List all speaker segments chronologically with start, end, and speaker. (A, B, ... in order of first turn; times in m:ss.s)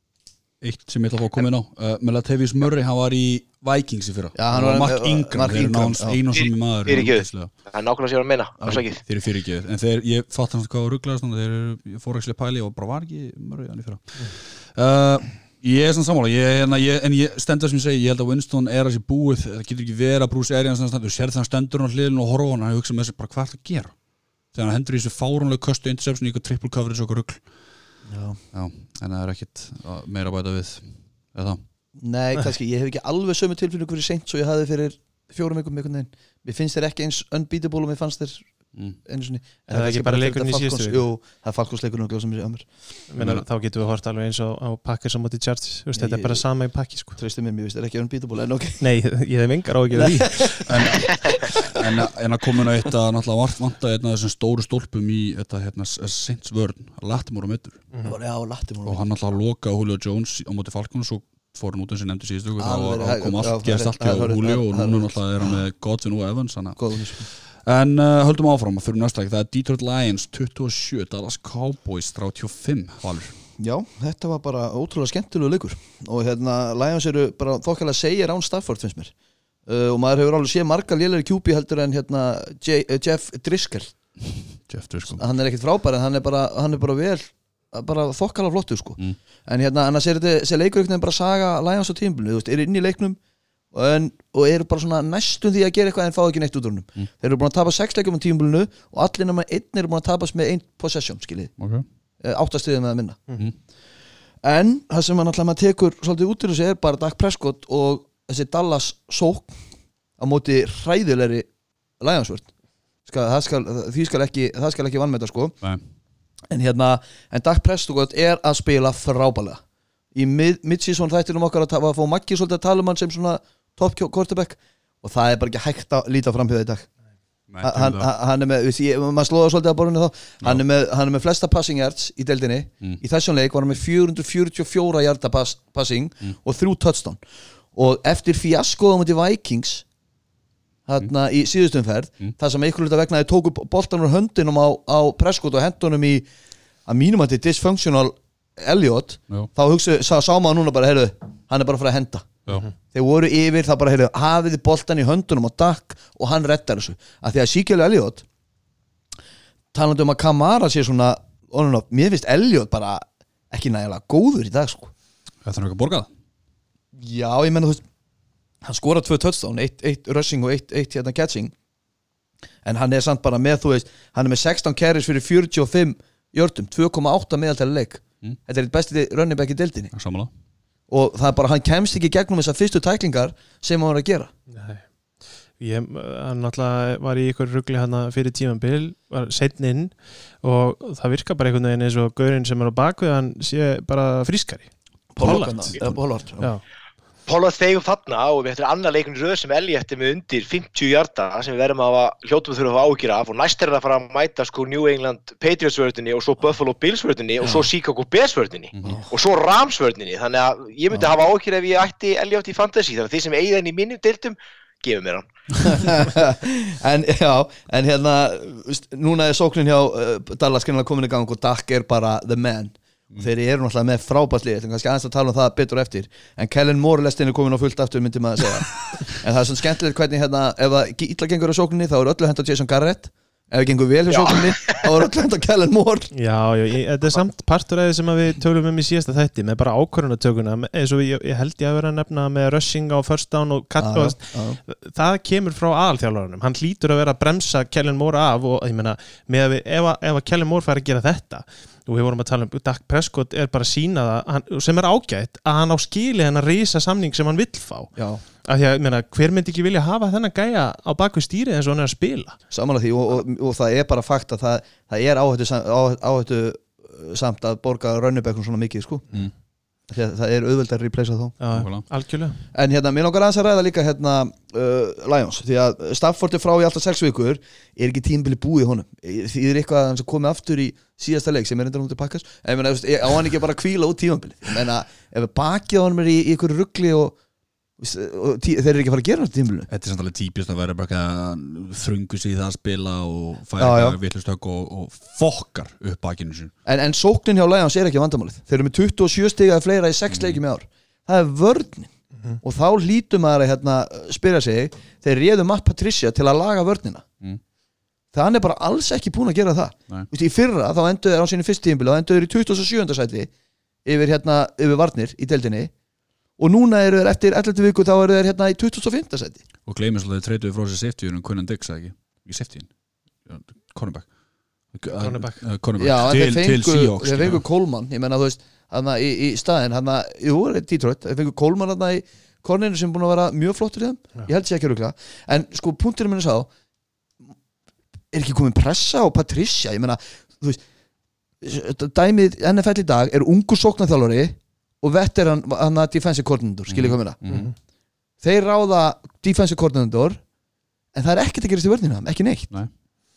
0:00.6-0:07.5 A
0:04.4-0:06.2 B
0:06.3-0:09.0 C
0:08.7-0:24.0 A
0:24.5-0:27.4 A
0:28.1-0:28.4 B
0:28.5-0:31.6 A
0:32.0-0:42.9 B
0:39.7-0:41.1 D
0:43.1-0:47.2 D
0:43.2-0:43.4 A
0:46.0-0:46.5 B
0:47.2-0:48.8 B
0:48.8-0:50.6 D
0:50.0-0:51.8 B
0:50.7-0:57.8 A
0:58.0-0:59.0 B
0:58.8-1:13.4 A
1:02.6-1:05.2 B
1:06.8-1:07.3 B
1:13.6-1:19.1 B
1:19.7-1:23.9 B
1:24.6-1:25.2 A
1:25.1-1:33.2 B
1:33.7-1:41.5 B
1:41.6-1:41.8 A
1:42.2-1:43.3 B
1:44.4-1:49.5 B
1:50.2-1:51.5 B
1:52.0-1:52.5 B
1:53.1-1:55.6 B
1:56.5-1:59.6 B
2:00.1-2:06.9 B
2:07.5-2:08.1 A
2:07.6-2:17.2 B
2:17.8-2:19.8 B
2:20.9-2:26.3 B
2:26.9-2:38.2 B
2:39.7-2:44.9 B
2:45.4-2:46.1 A
2:47.0-2:47.8 B
2:48.6-2:51.5 B
2:52.6-2:59.9 B
2:59.9-3:00.3 A
3:00.9-3:04.3 B
3:04.5-3:04.9 D
3:05.6-3:16.6 D
3:15.1-3:16.5 B
3:17.3-3:35.8 C
3:28.8-3:29.0 A
3:35.6-3:56.1 B
3:54.1-3:54.8 C
3:56.1-4:22.4 D
4:03.8-4:04.6 B
4:18.0-4:18.2 B
4:22.5-4:29.1 B
4:29.9-4:31.4 B
4:31.4-4:32.4 D
4:31.5-4:31.8 A
4:32.5-4:47.1 B
4:47.8-4:49.7 B
4:49.7-4:56.5 A
4:53.6-4:54.0 B
4:56.7-5:07.1 B
5:00.1-5:00.4 A
5:08.1-5:13.3 B
5:13.8-5:15.7 B
5:16.4-5:19.4 B
5:19.7-5:22.7 A
5:23.3-5:24.1 A
5:24.7-5:27.4 A
5:24.9-5:25.4 D
5:25.8-5:36.5 B
5:38.1-5:40.6 B
5:41.4-5:47.2 B
5:46.7-5:47.5 A
5:47.2-5:47.6 D
5:48.2-5:50.2 B
5:50.9-5:52.5 B